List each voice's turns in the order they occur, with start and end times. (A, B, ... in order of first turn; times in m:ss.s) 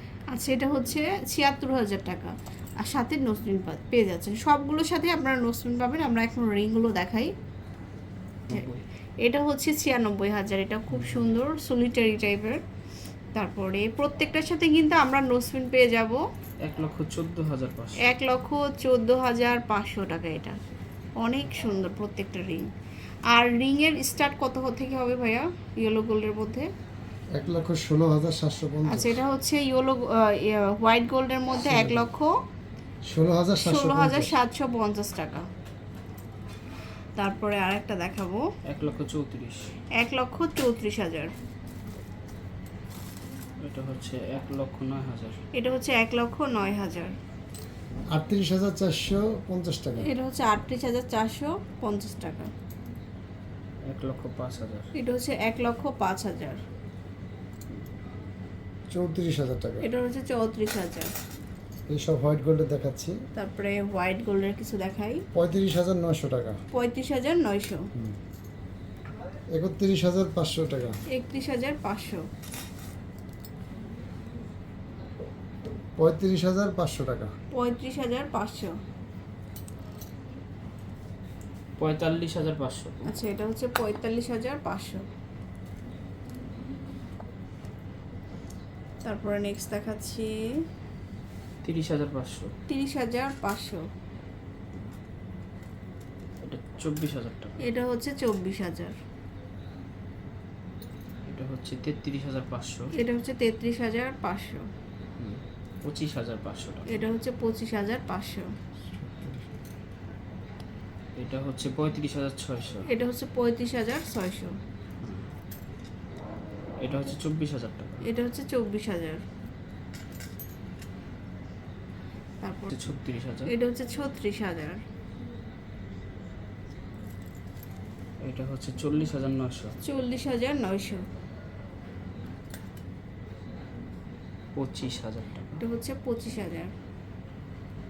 0:00.3-0:07.3 A
0:08.5-0:08.8 B
0:09.2-0:12.6 A
0:13.3-0:16.2 A
0:16.6-0:18.0 B
0:18.0-0:20.6 A
0:21.2-0:22.7 A
0:23.3-0:26.7 A
0:27.3-0:29.2 C
0:28.9-0:32.4 A
0:33.1-0:34.4 C
0:33.6-0:35.5 A
0:37.2-0:38.5 A
0:38.6-0:39.7 B
0:40.0-0:41.3 A
0:43.6-0:45.4 B
0:45.5-0:47.2 A
0:48.1-0:50.1 C
0:50.0-0:52.5 A
0:53.8-0:54.9 B
0:55.0-0:56.6 A
0:58.9-0:59.8 C
0:59.8-1:01.1 A
1:01.9-1:03.2 C
1:03.4-1:05.2 A
1:05.3-1:06.6 C
1:06.7-1:07.9 A
1:09.6-1:11.0 C
1:11.1-1:12.3 A
1:16.0-1:17.3 C
1:17.5-1:18.8 A
1:21.8-1:23.1 B
1:23.0-1:25.1 A
1:29.0-1:30.6 A
1:31.6-1:32.5 B
1:32.7-1:33.9 A
1:36.4-1:37.6 B
1:37.6-1:39.0 A
1:41.3-1:42.9 B
1:42.9-1:44.6 A
1:45.2-1:47.0 B
1:46.9-1:48.5 A
1:48.9-1:49.6 C
1:51.2-1:52.9 B
1:52.9-1:54.6 A
1:55.0-1:55.3 B
1:56.8-1:58.1 B
1:58.0-1:59.2 A
2:02.4-2:02.7 A
2:02.7-2:03.5 B
2:03.5-2:04.8 A
2:08.2-2:09.8 B
2:09.8-2:11.0 A
2:14.6-2:15.6 B
2:15.6-2:16.7 A